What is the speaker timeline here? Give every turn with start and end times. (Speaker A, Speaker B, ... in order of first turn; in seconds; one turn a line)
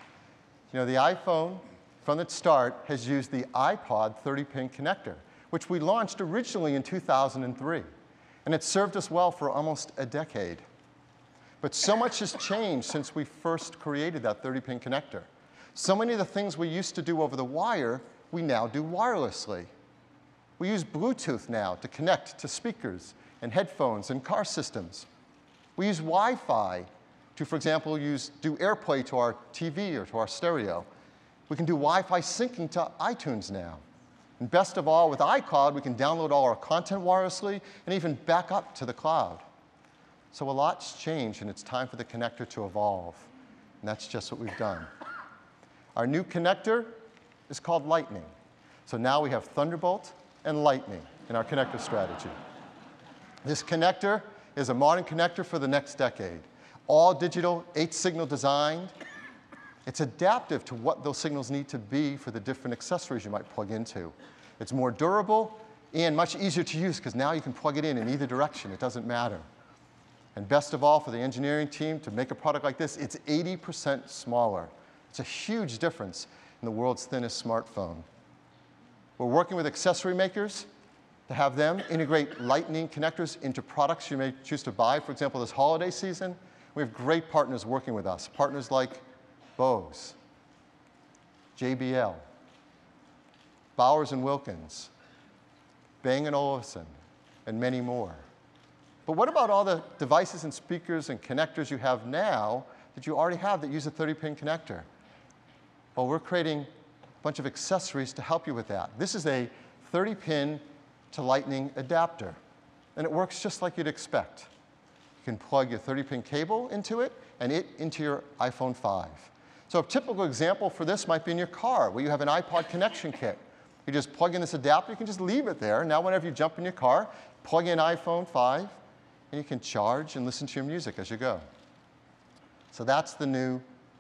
Speaker A: 0.7-7.9
Speaker A: 8.4-10.6
Speaker A: 11.6-19.7
Speaker A: 20.6-25.1
Speaker A: 25.8-30.9
Speaker A: 31.5-33.8
Speaker A: 34.4-39.4
Speaker A: 40.3-43.3
Speaker A: 43.8-44.9
Speaker A: 46.0-47.0
Speaker A: 47.5-48.3
Speaker A: 48.9-52.4
Speaker A: 53.4-58.9
Speaker A: 59.9-69.5
Speaker A: 70.3-78.1
Speaker A: 79.2-80.7
Speaker A: 81.3-89.0
Speaker A: 89.6-90.2
Speaker A: 91.6-92.2
Speaker A: 93.8-94.9
Speaker A: 96.0-96.9
Speaker A: 97.5-98.2
Speaker A: 99.1-104.9
Speaker A: 106.0-106.7
Speaker A: 107.2-112.4
Speaker A: 113.0-114.5
Speaker A: 115.2-128.8
Speaker A: 129.3-131.4
Speaker A: 132.7-133.6